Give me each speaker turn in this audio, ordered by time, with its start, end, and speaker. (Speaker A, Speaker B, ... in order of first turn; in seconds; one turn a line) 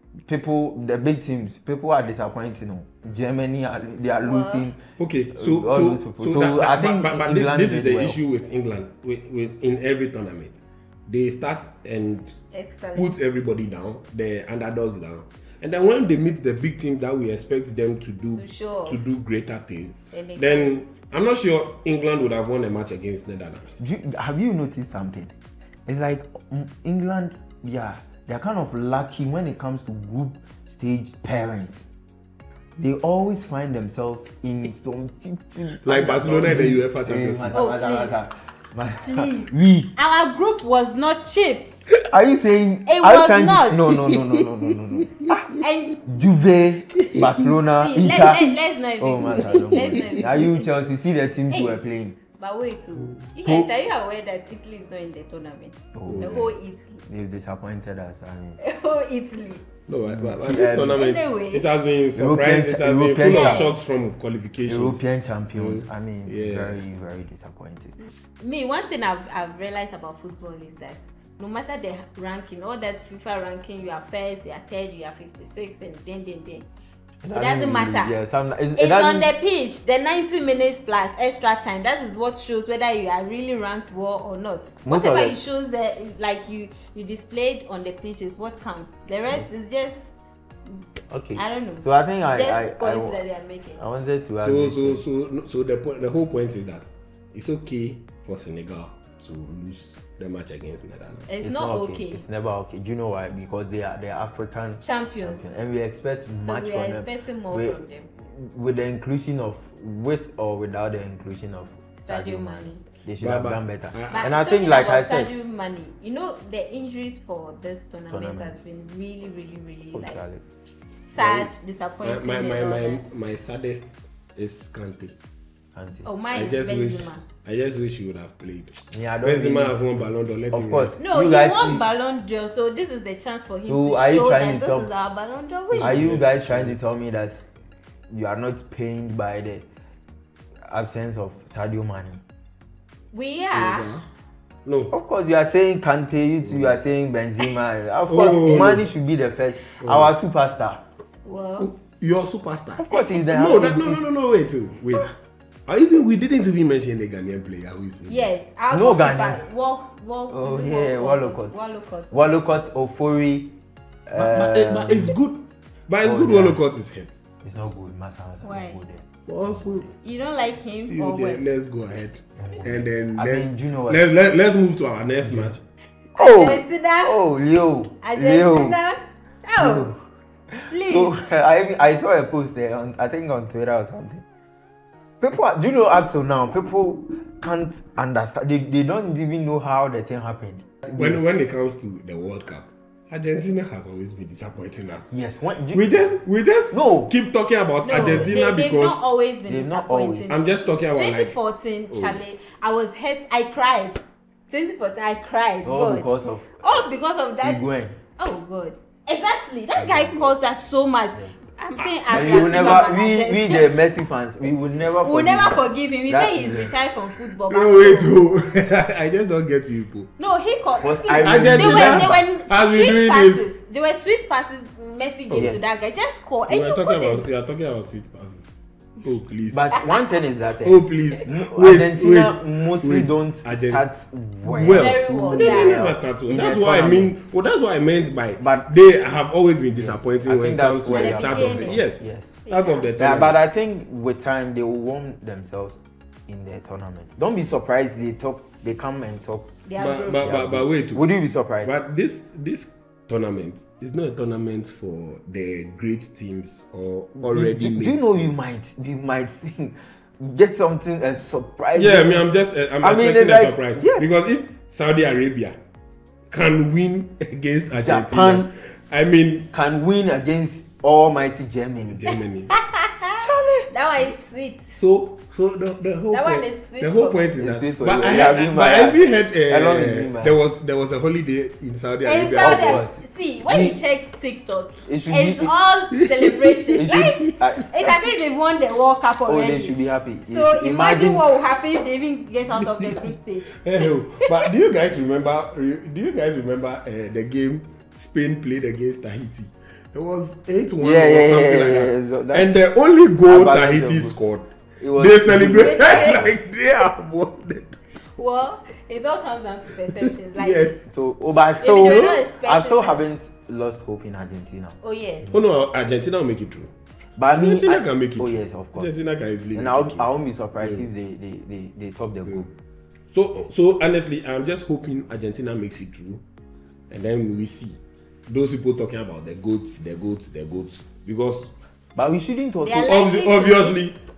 Speaker A: 0.3-4.8
Speaker B: 4.2-4.7
Speaker C: 5.0-12.3
Speaker A: 5.3-8.2
Speaker B: 12.5-13.1
Speaker C: 12.9-23.8
Speaker B: 18.3-19.0
Speaker B: 20.1-20.8
Speaker A: 23.8-25.3
Speaker A: 25.9-31.8
Speaker A: 32.8-39.9
Speaker C: 35.8-37.6
Speaker B: 37.5-38.2
Speaker B: 39.0-41.7
Speaker A: 42.1-45.5
Speaker B: 42.9-44.0
Speaker C: 45.1-45.4
Speaker B: 45.5-46.0
Speaker A: 46.0-52.2
Speaker C: 47.0-47.5
Speaker B: 47.6-50.7
Speaker C: 49.5-50.2
Speaker B: 51.5-51.8
Speaker B: 52.3-57.0
Speaker A: 53.4-53.7
Speaker A: 55.9-56.4
Speaker C: 56.1-56.5
Speaker A: 57.0-58.6
Speaker B: 58.6-59.7
Speaker C: 59.9-66.8
Speaker A: 60.1-61.0
Speaker B: 60.9-61.7
Speaker A: 62.1-63.7
Speaker B: 63.2-63.7
Speaker A: 64.7-68.0
Speaker B: 68.3-76.7
Speaker A: 77.2-79.3
Speaker B: 77.3-78.2
Speaker B: 78.8-90.8
Speaker A: 84.8-85.4
Speaker A: 91.1-93.2
Speaker B: 91.3-93.8
Speaker A: 93.8-95.0
Speaker C: 94.4-101.3
Speaker B: 101.3-102.2
Speaker A: 101.4-115.3
Speaker B: 104.8-105.6
Speaker B: 106.4-108.1
Speaker B: 111.9-112.8
Speaker C: 113.2-114.3
Speaker B: 114.1-120.2
Speaker A: 118.1-118.6
Speaker A: 119.9-120.4
Speaker B: 121.0-123.1
Speaker C: 121.2-121.5
Speaker C: 122.0-125.1
Speaker A: 125.7-126.1
Speaker B: 126.0-127.2
Speaker C: 126.3-131.0
Speaker A: 128.9-129.8
Speaker A: 130.5-131.8
Speaker B: 131.0-136.0
Speaker A: 133.7-134.9
Speaker C: 135.7-136.8
Speaker A: 135.8-137.4
Speaker A: 138.1-139.7
Speaker A: 140.7-142.2
Speaker B: 143.1-143.9
Speaker C: 143.5-144.0
Speaker C: 144.6-144.9
Speaker A: 144.9-150.8
Speaker C: 146.4-146.8
Speaker C: 148.1-148.9
Speaker C: 149.8-150.1
Speaker B: 151.2-151.7
Speaker C: 151.6-155.1
Speaker A: 152.8-154.0
Speaker C: 155.7-158.3
Speaker B: 158.1-162.4
Speaker A: 158.7-159.4
Speaker A: 160.3-161.6
Speaker A: 162.1-163.5
Speaker A: 164.1-165.2
Speaker C: 164.1-167.1
Speaker A: 166.0-166.6
Speaker A: 167.4-169.9
Speaker B: 168.4-168.8
Speaker C: 169.2-169.9
Speaker B: 170.0-171.5
Speaker C: 170.8-175.6
Speaker A: 172.4-174.1
Speaker A: 175.2-175.5
Speaker B: 176.1-177.2
Speaker A: 176.2-178.8
Speaker B: 178.0-179.9
Speaker A: 179.6-180.0
Speaker A: 180.5-184.2
Speaker B: 180.7-181.3
Speaker A: 185.2-191.2
Speaker C: 190.8-195.2
Speaker A: 195.1-196.1
Speaker C: 195.7-199.0
Speaker A: 196.7-197.1
Speaker B: 197.8-213.8
Speaker A: 198.0-198.3
Speaker A: 199.5-200.3
Speaker C: 200.3-201.3
Speaker C: 201.9-202.2
Speaker A: 205.6-206.6
Speaker A: 207.4-208.0
Speaker C: 209.8-210.3
Speaker C: 212.1-212.6
Speaker A: 212.1-216.7
Speaker B: 215.0-218.2
Speaker C: 217.4-220.1
Speaker B: 220.2-227.3
Speaker A: 220.8-222.2
Speaker C: 221.1-223.5
Speaker C: 225.3-225.6
Speaker A: 225.3-225.6
Speaker C: 226.5-228.5
Speaker C: 229.0-229.8
Speaker A: 229.5-237.2
Speaker C: 230.6-233.8
Speaker C: 234.4-243.4
Speaker B: 234.6-235.8
Speaker A: 239.8-242.4
Speaker B: 240.9-241.8
Speaker B: 242.4-242.9
Speaker A: 243.0-249.5
Speaker B: 249.6-250.5
Speaker C: 249.8-251.0
Speaker A: 250.2-251.7
Speaker C: 251.6-258.4
Speaker A: 257.2-262.2
Speaker C: 261.7-265.6
Speaker A: 262.8-264.0
Speaker C: 266.3-269.5
Speaker A: 267.8-268.5
Speaker A: 269.5-272.0
Speaker C: 271.9-272.6
Speaker B: 272.5-273.2
Speaker A: 273.2-273.7
Speaker B: 273.7-274.8
Speaker C: 274.7-282.8
Speaker B: 276.1-277.3
Speaker A: 277.4-280.3
Speaker B: 278.0-278.5
Speaker B: 282.0-294.5
Speaker A: 282.4-283.8
Speaker A: 284.9-285.5
Speaker C: 285.9-287.3
Speaker A: 286.8-288.1
Speaker A: 289.2-291.3
Speaker C: 292.5-307.8
Speaker A: 300.8-302.6
Speaker A: 303.2-304.1
Speaker A: 304.8-306.3
Speaker B: 305.4-306.3
Speaker B: 308.1-310.8
Speaker C: 309.9-310.8
Speaker A: 310.8-314.8
Speaker B: 311.6-313.0
Speaker C: 311.8-312.2
Speaker B: 314.8-315.4
Speaker C: 315.3-316.7
Speaker A: 317.2-318.9
Speaker C: 317.3-320.9
Speaker A: 319.5-322.5
Speaker C: 323.1-326.2
Speaker C: 326.9-331.5
Speaker A: 331.9-332.9
Speaker B: 332.6-333.9
Speaker C: 332.8-334.0